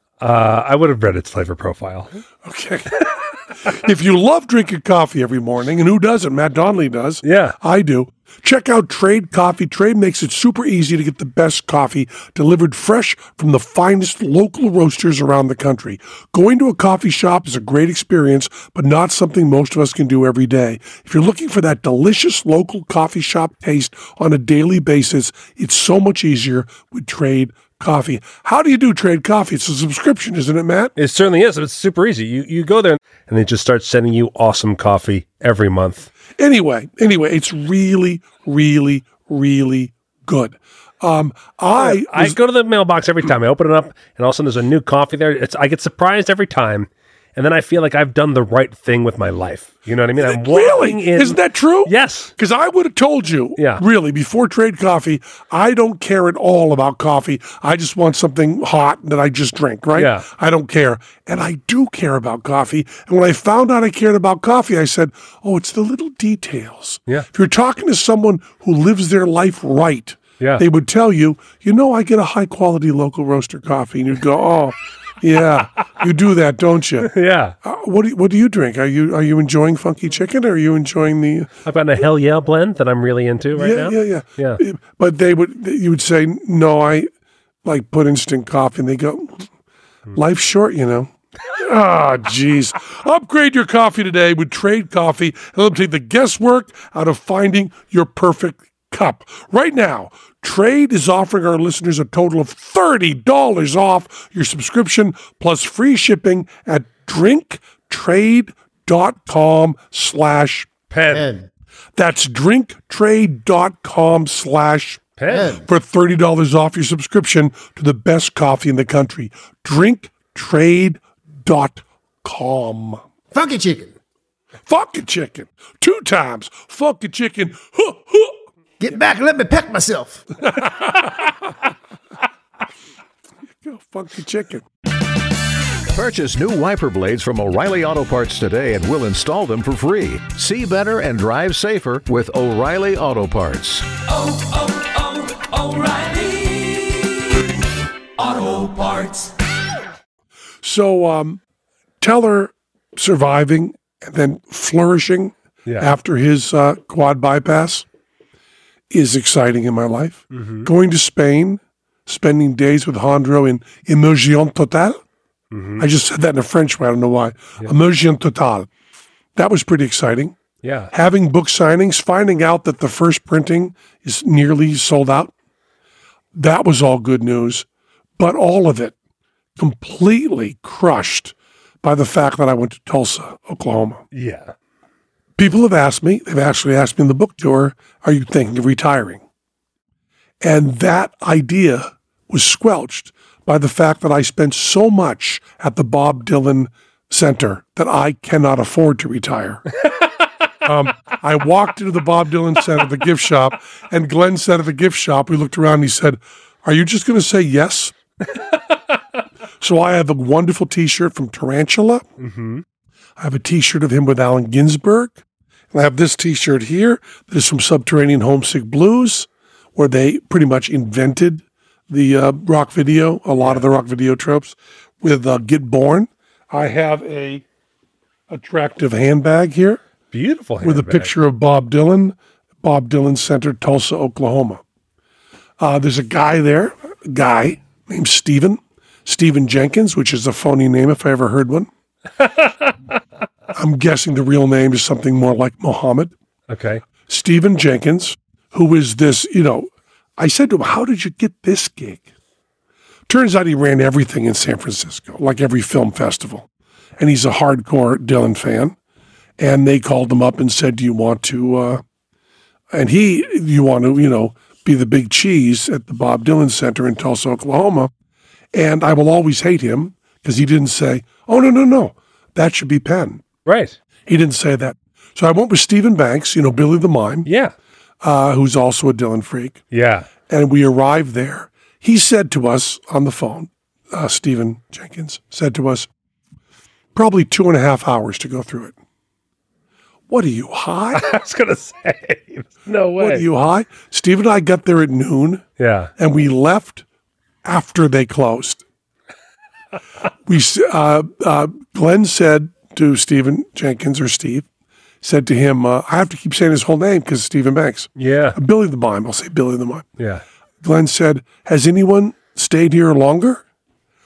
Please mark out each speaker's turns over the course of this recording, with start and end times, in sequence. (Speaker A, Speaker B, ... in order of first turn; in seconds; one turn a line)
Speaker A: 0.2-2.1
Speaker B: 2.4-30.9
Speaker A: 7.2-7.5
Speaker A: 30.9-36.1
Speaker B: 36.4-42.4
Speaker A: 41.8-52.3
Speaker B: 50.2-81.5
Speaker A: 53.6-53.8
Speaker A: 60.0-60.2
Speaker A: 77.0-77.5
Speaker A: 81.6-84.6
Speaker B: 83.5-87.1
Speaker B: 87.6-89.5
Speaker B: 90.1-110.7
Speaker A: 110.9-111.3
Speaker C: 111.1-111.5
Speaker B: 112.0-115.1
Speaker A: 115.2-115.6
Speaker C: 115.3-115.7
Speaker B: 115.6-123.0
Speaker C: 123.3-123.9
Speaker B: 124.7-128.4
Speaker C: 128.8-130.2
Speaker B: 130.5-131.2
Speaker B: 133.6-134.6
Speaker D: 135.9-143.9
Speaker E: 144.0-147.4
Speaker E: 148.2-149.3
Speaker B: 150.6-151.4
Speaker B: 152.0-157.8
Speaker B: 158.9-165.0
Speaker A: 160.3-160.7
Speaker A: 165.5-165.8
Speaker B: 165.8-168.7
Speaker B: 169.3-170.3
Speaker A: 170.6-170.9
Speaker B: 170.9-175.3
Speaker B: 176.3-177.7
Speaker B: 178.2-178.9
Speaker B: 179.6-184.0
Speaker A: 184.1-184.5
Speaker B: 185.4-189.2
Speaker B: 190.4-199.7
Speaker B: 200.6-207.9
Speaker B: 209.6-212.1
Speaker A: 212.2-212.6
Speaker B: 213.2-227.4
Speaker A: 223.4-223.7
Speaker B: 228.3-229.8
Speaker A: 230.1-231.1
Speaker B: 230.6-234.6
Speaker B: 235.6-241.7
Speaker A: 242.3-242.7
Speaker B: 243.5-246.1
Speaker A: 246.5-246.8
Speaker B: 247.1-252.1
Speaker B: 253.1-256.5
Speaker B: 257.0-258.7
Speaker B: 259.4-261.8
Speaker B: 262.7-267.9
Speaker B: 268.5-273.2
Speaker A: 273.4-273.8
Speaker B: 274.1-277.3
Speaker A: 277.2-277.5
Speaker B: 278.0-279.6
Speaker A: 279.7-280.1
Speaker B: 280.3-285.9
Speaker B: 286.9-288.7
Speaker B: 290.1-291.1
Speaker A: 290.9-293.2
Speaker B: 293.0-295.4
Speaker A: 295.6-295.9
Speaker B: 296.0-296.8
Speaker B: 297.4-298.6
Speaker B: 300.3-304.4
Speaker B: 305.0-309.9
Speaker A: 308.0-308.4
Speaker A: 310.0-310.2
Speaker B: 310.6-313.4